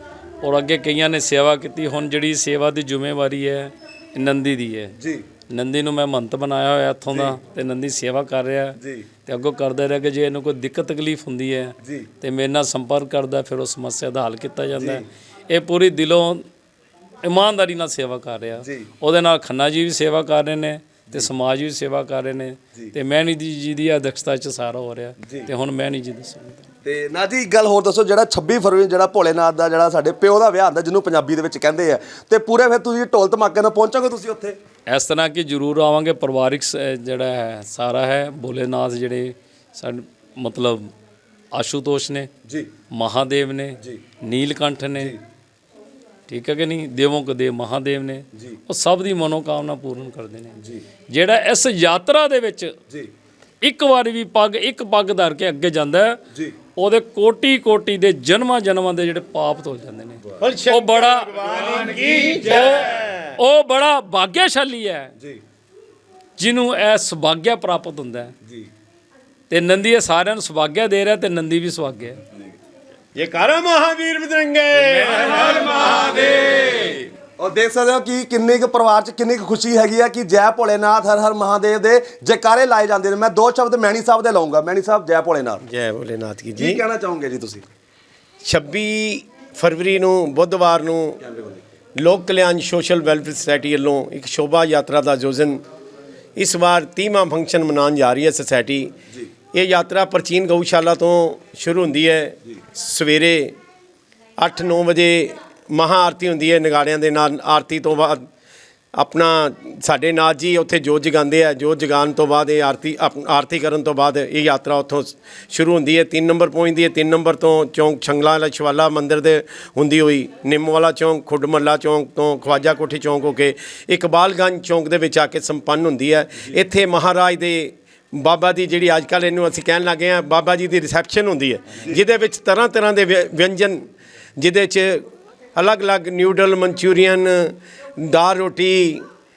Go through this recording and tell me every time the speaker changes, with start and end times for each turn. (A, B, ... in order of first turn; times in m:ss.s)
0:00.4-0:04.9 A
0:05.0-0:05.2 B
0:05.5-0:16.4 A
0:08.8-0:09.1 B
0:11.8-0:12.1 B
0:14.8-0:15.0 B
0:17.2-0:26.7 A
0:18.6-0:18.9 B
0:25.2-0:25.5 B
0:26.8-0:34.6 B
0:34.9-0:40.9 A
0:41.5-0:42.3 A
0:42.4-0:42.7 B
0:42.9-0:45.2 A
0:46.3-0:50.6 A
0:51.1-0:52.7 A
0:53.6-0:56.2 A
0:56.8-1:01.3 A
1:00.4-1:03.3 C
1:02.4-1:05.1 A
1:06.4-1:08.3 A
1:09.5-1:12.2 A
1:13.1-1:16.9 C
1:14.7-1:15.9 A
1:17.4-1:25.6 B
1:25.6-1:26.8 C
1:26.6-1:27.6 B
1:28.4-1:31.2 C
1:31.2-1:31.6 B
1:32.0-1:35.6 C
1:36.4-1:38.9 C
1:39.5-1:43.6 C
1:44.4-1:48.2 C
1:48.9-2:13.8 C
2:14.4-2:15.0 C
2:15.6-2:19.0 C